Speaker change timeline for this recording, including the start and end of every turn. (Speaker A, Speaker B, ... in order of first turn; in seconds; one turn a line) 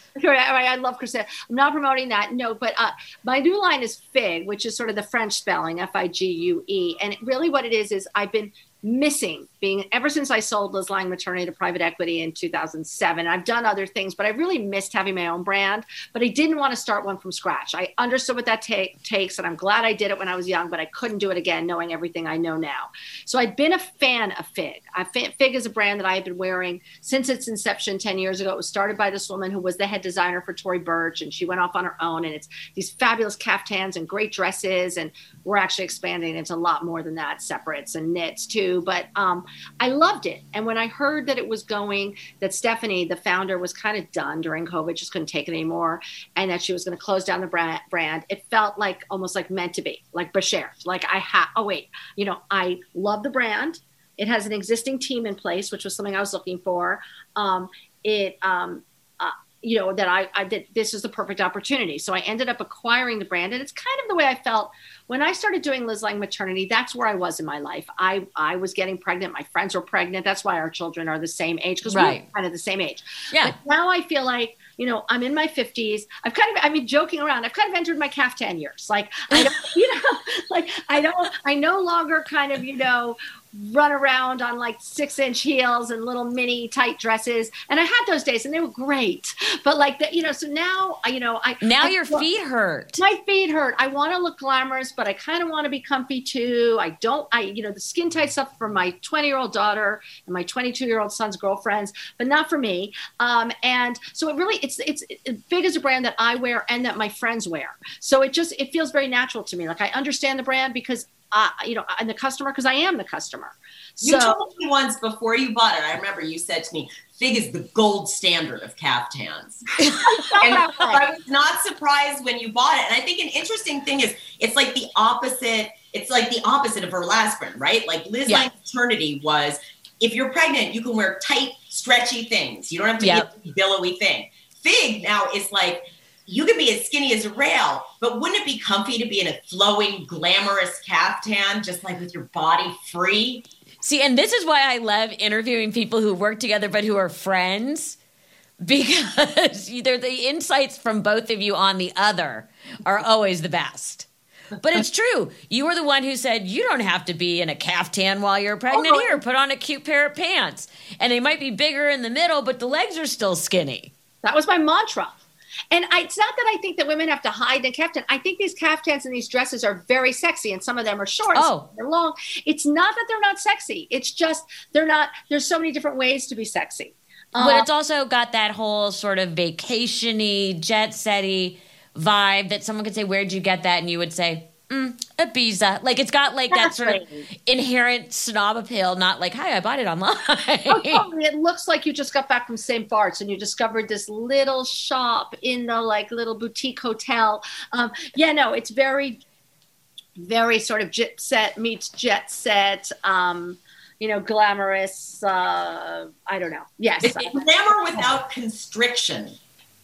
Speaker A: 0.1-92.3
Speaker B: 71.9-72.2
Speaker B: 73.3-73.5
Speaker B: 91.6-93.0
Speaker A: 93.0-114.4
Speaker C: 114.0-119.9
Speaker A: 120.0-121.0
Speaker C: 120.4-143.4
Speaker B: 133.0-133.3
Speaker B: 143.8-148.0
Speaker B: 148.6-154.1
Speaker B: 154.6-163.9
Speaker A: 158.7-159.2
Speaker A: 164.2-165.2
Speaker A: 165.7-177.7
Speaker B: 171.3-171.7
Speaker B: 177.4-191.1
Speaker A: 186.5-187.3
Speaker A: 190.7-199.2
Speaker A: 200.2-207.4
Speaker C: 207.0-209.4